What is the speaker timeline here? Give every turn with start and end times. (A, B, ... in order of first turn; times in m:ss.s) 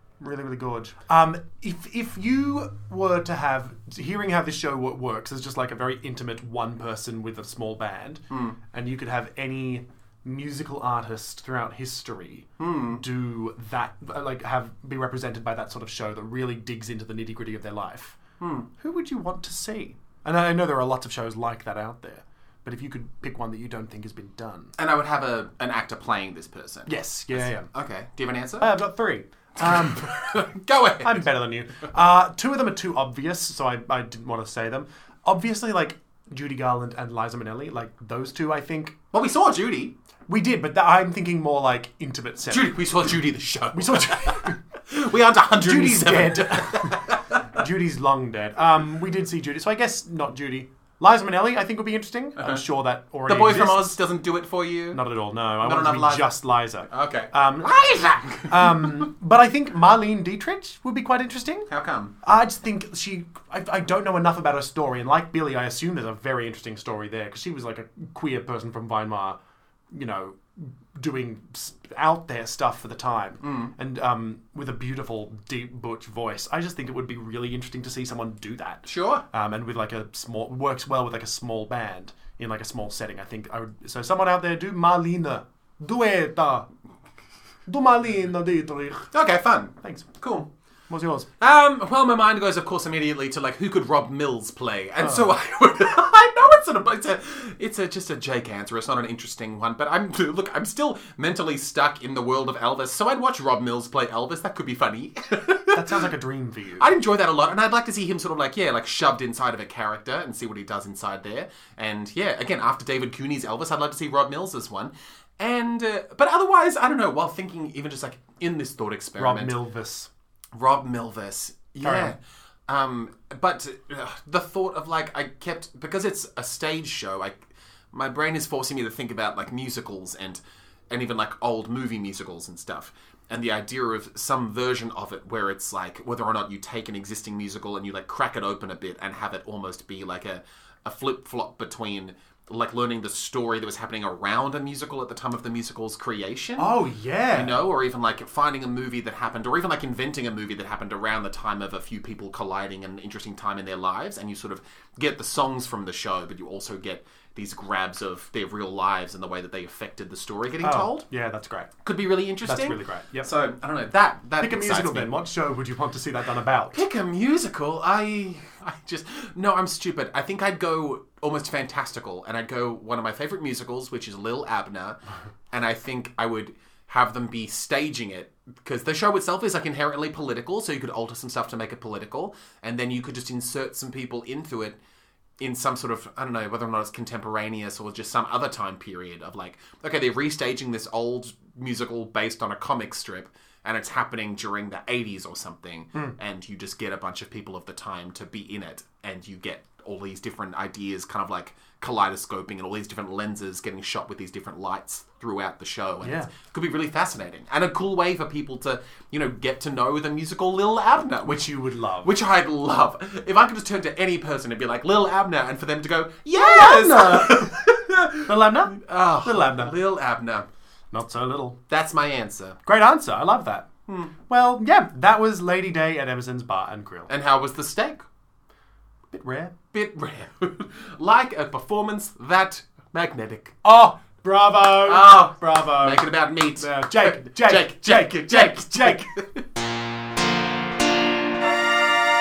0:00.2-0:18.2 A
0:08.3-0:08.6 B
0:12.6-0:13.0 B
0:18.4-0:18.7 B
0:18.7-0:24.7 A
0:24.8-0:28.7 B
0:26.9-0:27.7 A
0:28.6-0:30.2 A
0:29.6-0:31.3 B
0:31.0-0:39.0 A
0:39.1-0:39.9 B
0:40.3-0:42.8 A
0:42.5-0:47.4 B
0:43.7-0:44.6 A
0:45.6-0:53.9 A
0:52.4-0:52.6 B
0:53.3-0:55.0 B
0:54.9-0:57.8 A
0:55.6-0:59.1 B
0:58.4-1:01.7 A
1:01.7-1:02.1 B
1:02.2-1:09.4 A
1:09.9-1:26.7 A
1:13.4-1:13.7 B
1:18.8-1:19.2 B
1:27.7-1:29.1 A
1:29.1-1:30.5 B
1:29.8-1:30.1 A
1:30.9-1:31.3 A
1:31.4-1:46.0 B
1:45.7-1:46.9 A
1:46.8-1:59.6 B
1:59.2-2:00.1 A
2:00.5-2:26.8 B
2:01.8-2:02.1 A
2:26.6-2:27.6 A
2:27.3-2:41.0 B
2:40.6-2:41.7 A
2:41.8-2:45.1 B
2:42.4-2:43.3 A
2:44.4-2:46.8 A
2:46.7-2:55.0 B
2:55.5-3:04.8 B
3:05.4-3:40.5 B
3:26.0-3:26.3 A
3:31.2-3:32.1 A
3:36.3-3:37.6 A
3:38.2-3:39.7 A
3:40.9-3:41.6 A
3:41.7-3:42.6 B
3:42.6-3:43.7 A
3:43.9-3:44.1 B
3:44.2-3:47.1 A
3:47.1-3:48.0 B
3:49.1-3:49.5 A
3:49.7-3:53.6 B
3:53.6-3:59.1 A
3:54.8-3:59.4 B